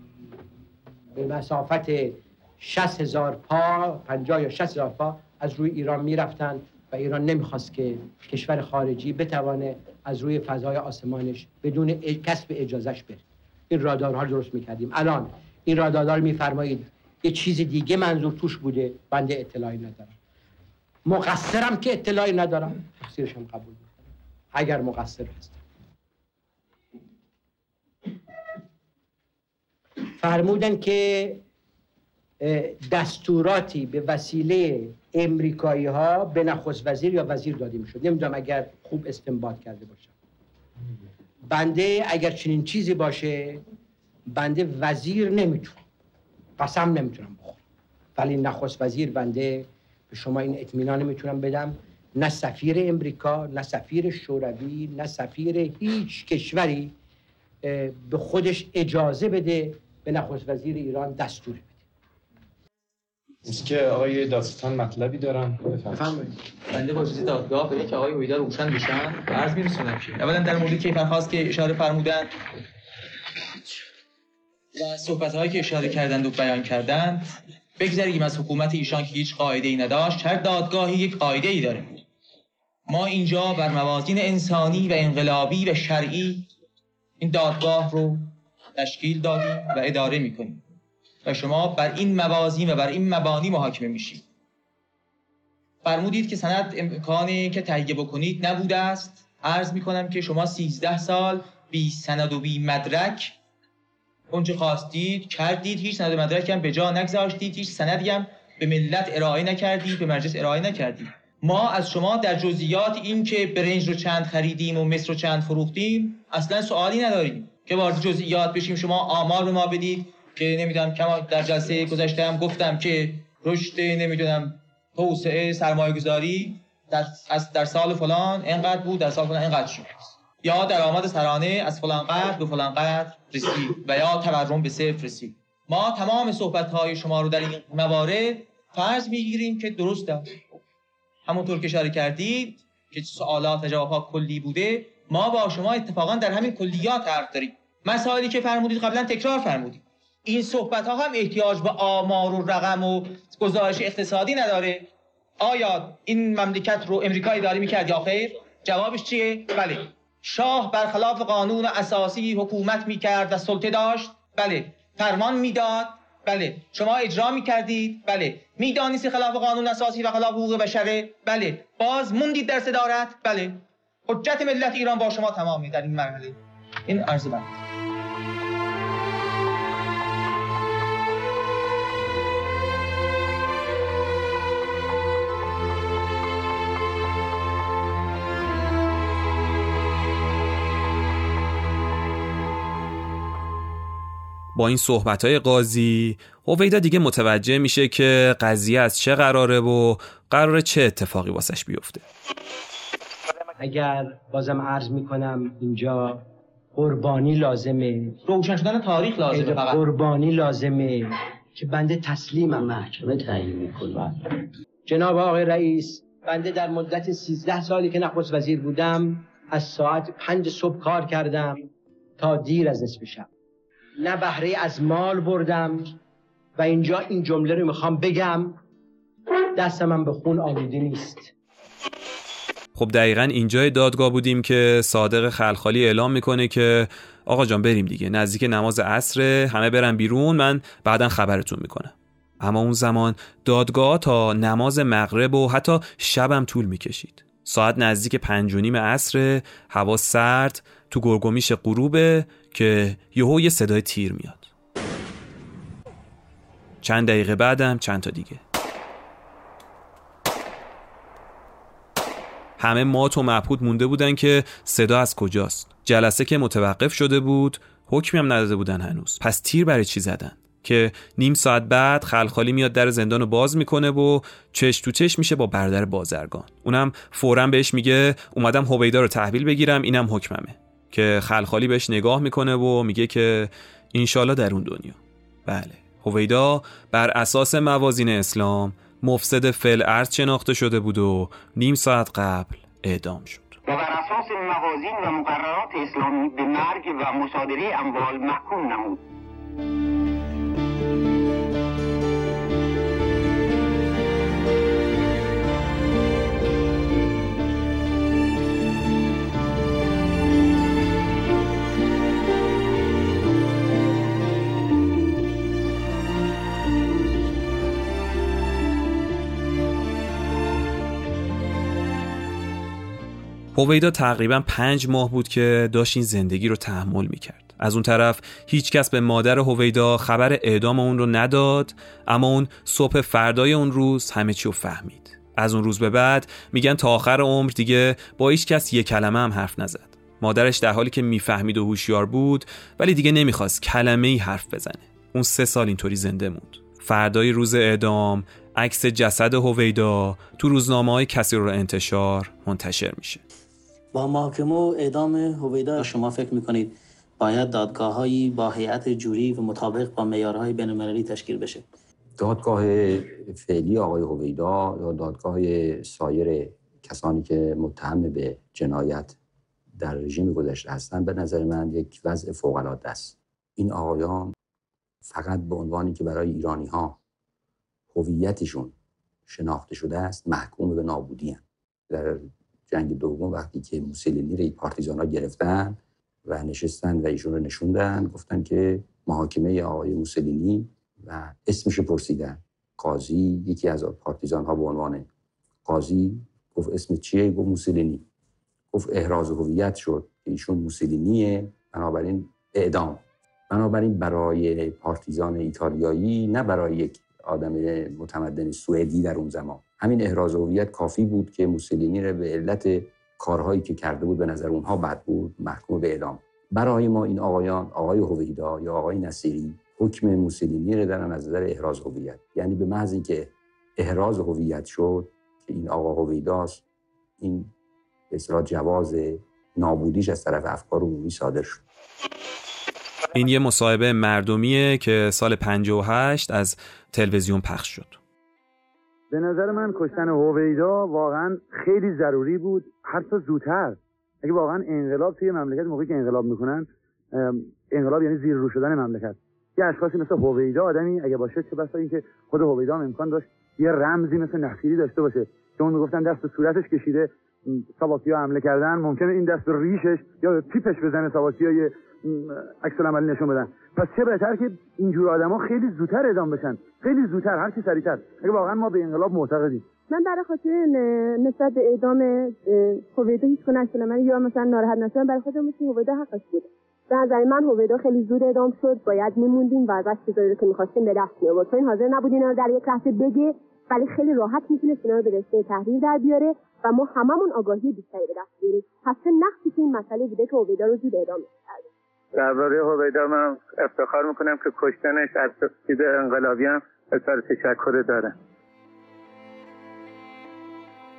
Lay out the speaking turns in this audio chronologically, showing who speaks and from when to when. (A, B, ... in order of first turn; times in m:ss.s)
0:01.1-0:20.1 A
0:21.1-0:25.6 A
0:30.2-0:31.4 A
0:32.4-0:40.1 A
0:41.5-0:43.6 A
0:44.3-0:45.8 A
0:46.6-0:47.6 A
0:48.2-0:56.9 A
0:57.6-1:01.8 A
1:03.4-1:06.0 B
1:06.0-1:06.3 A
1:06.7-1:12.3 C
1:14.8-1:22.0 C
1:22.9-1:26.5 C
1:27.2-1:30.6 C
1:31.2-1:34.2 C
1:35.8-1:43.4 C
1:44.3-2:20.3 C
2:21.3-2:34.9 C
2:35.4-2:57.6 C
3:14.5-3:22.0 D
3:23.6-3:28.2 A
3:28.3-3:29.8 C
3:29.3-3:32.7 A
3:32.6-3:34.2 E
3:34.9-3:43.3 A
3:44.0-3:46.0 A
3:46.6-3:48.6 A
3:49.5-3:51.3 A
3:52.8-4:14.5 D
4:16.8-4:18.4 D
4:22.6-4:53.6 D
4:53.7-4:59.0 F
5:23.5-5:53.2 D
5:53.9-6:01.6 E
6:02.2-6:09.2 G
6:09.8-6:14.3 G
6:15.1-6:17.0 G
6:17.9-6:18.7 G
6:19.3-6:35.1 G
6:35.6-6:38.0 G
6:38.7-7:06.6 G
7:07.2-7:07.5 G
7:08.1-7:11.6 G
7:13.1-7:18.0 D
7:19.1-7:49.7 H
7:49.9-8:11.7 I
8:12.1-8:18.1 J